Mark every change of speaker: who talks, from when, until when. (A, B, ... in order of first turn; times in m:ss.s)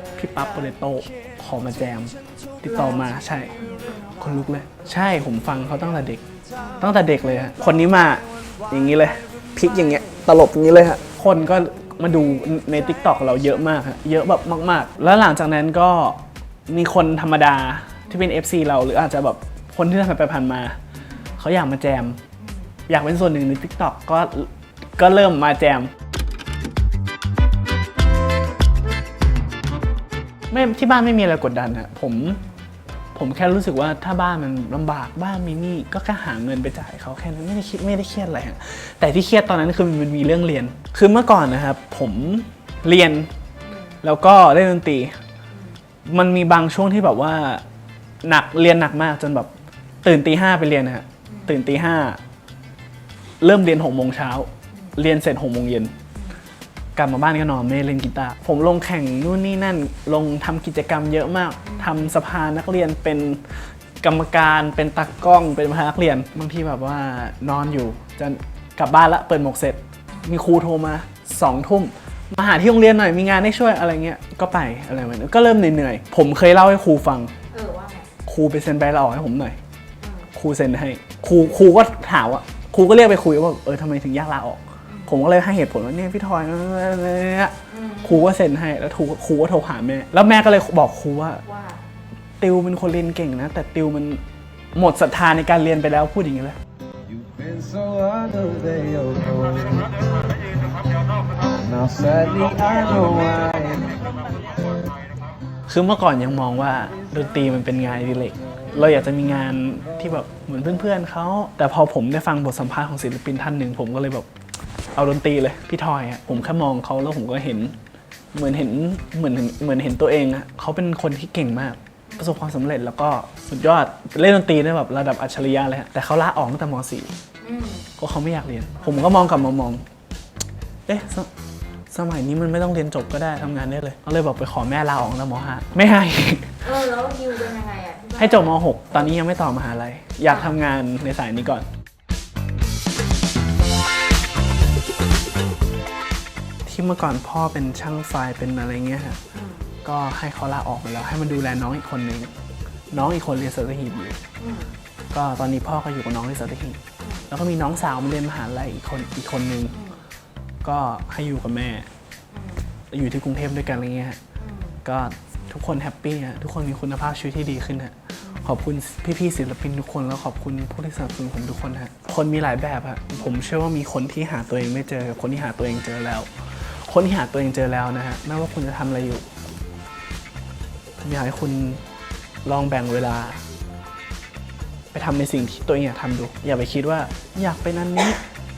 0:00.2-0:03.5 A
0:02.7-0:04.3 B
0:04.2-0:20.8 A
0:21.4-0:22.2 A
0:22.4-0:22.7 B
0:22.9-0:25.9 A
0:30.5-0:32.4 A
0:32.2-0:32.5 B
0:33.1-0:43.3 A
0:43.6-0:44.0 B
0:44.0-0:45.2 A
0:45.5-0:45.8 B
0:46.0-0:47.6 A
0:48.2-0:49.5 A
0:50.0-0:52.2 A
0:51.3-0:51.5 B
0:53.4-0:55.9 A
0:56.1-0:56.4 B
0:57.0-1:17.3 A
1:01.6-1:02.1 B
1:17.5-1:18.1 B
1:18.2-1:19.6 A
1:20.0-1:20.3 B
1:20.3-1:31.4 A
1:24.9-1:25.1 B
1:27.7-1:28.3 B
1:31.4-1:31.8 B
1:32.4-1:34.2 A
1:34.7-1:36.6 A
1:37.2-1:39.8 C
1:41.6-1:43.9 C
1:45.7-1:54.3 A
1:48.7-1:49.1 B
1:54.9-1:57.8 A
1:58.3-2:07.1 A
2:02.1-2:02.4 B
2:07.4-2:07.9 B
2:08.0-2:09.8 A
2:10.9-2:11.3 A
2:11.9-2:16.6 A
2:16.6-2:18.6 B
2:18.2-2:21.7 A
2:20.3-2:20.5 B
2:26.6-2:29.2 A
2:29.3-2:29.7 B
2:29.8-2:32.3 A
2:32.9-2:34.2 A
2:34.4-2:34.7 B
2:35.1-2:39.8 A
2:37.0-2:37.3 B
2:39.7-2:40.0 B
2:40.6-2:41.9 A
2:42.3-2:42.6 B
2:42.9-2:44.2 A
2:44.4-2:44.8 B
2:44.8-2:59.3 A
2:48.2-2:48.5 B
3:01.0-3:01.8 A
3:02.4-3:03.4 A
3:04.9-3:08.2 A